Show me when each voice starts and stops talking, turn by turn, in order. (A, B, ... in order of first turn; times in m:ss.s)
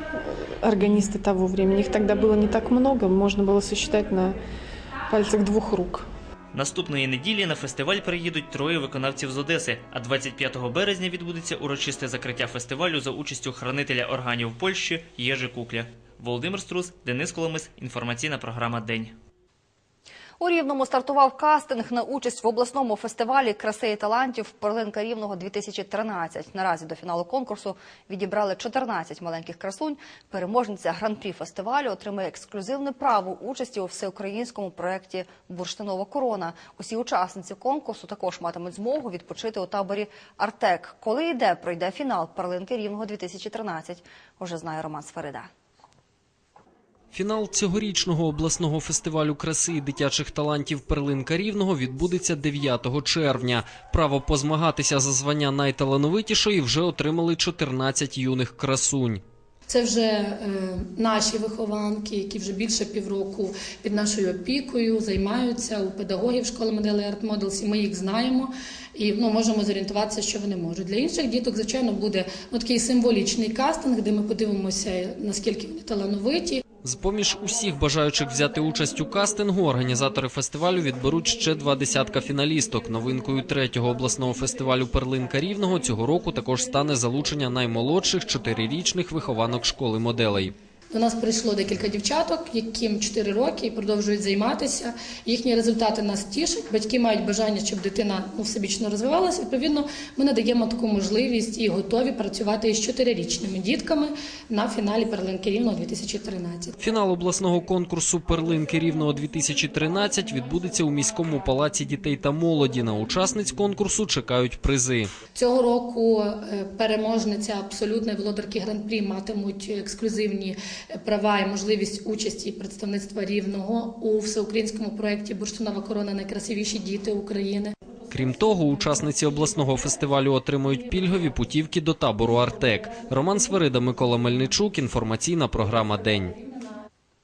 0:00.6-0:04.3 A
0:05.1-0:06.0 A
0:06.5-0:19.1 B
0:20.4-0:45.5 C
0:47.1-0:59.2 D
0:59.7-1:16.6 E
1:16.8-1:30.5 D
1:30.9-1:46.8 E
1:46.8-1:55.1 D
1:55.3-2:07.7 E
2:08.1-2:16.4 D